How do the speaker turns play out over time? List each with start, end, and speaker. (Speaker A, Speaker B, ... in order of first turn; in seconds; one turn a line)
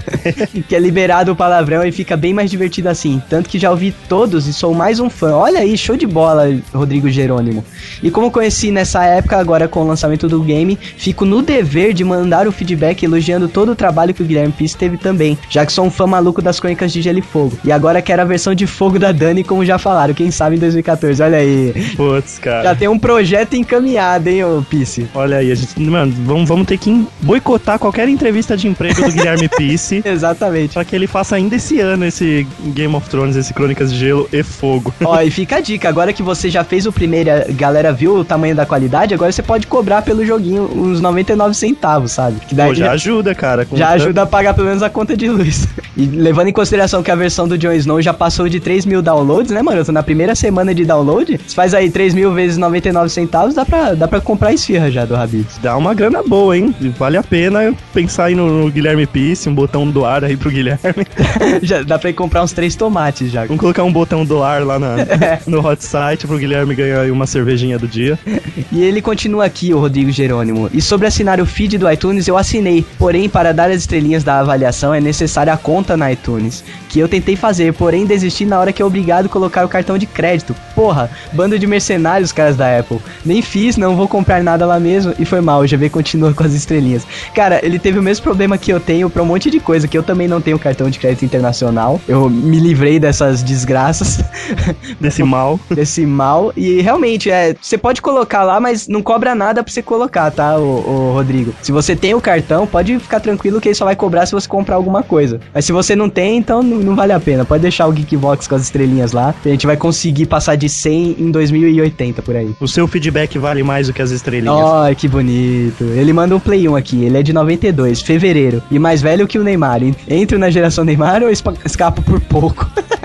Speaker A: 0.4-21.9
Speaker B: 21.9-22.8
Speaker A: 22.6-25.1
Speaker B: 25.1-30.0
Speaker A: 30.0-30.8
Speaker B: 30.7-35.2
Speaker A: 35.0-43.0
Speaker B: 42.6-44.1
Speaker A: 43.7-55.5
Speaker B: 55.5-61.1
Speaker A: 61.2-63.5
Speaker B: 63.5-68.2
Speaker A: 65.0-65.4
Speaker A: 68.7-112.6
Speaker B: 95.0-95.7
Speaker B: 112.6-114.7
Speaker A: 114.4-122.7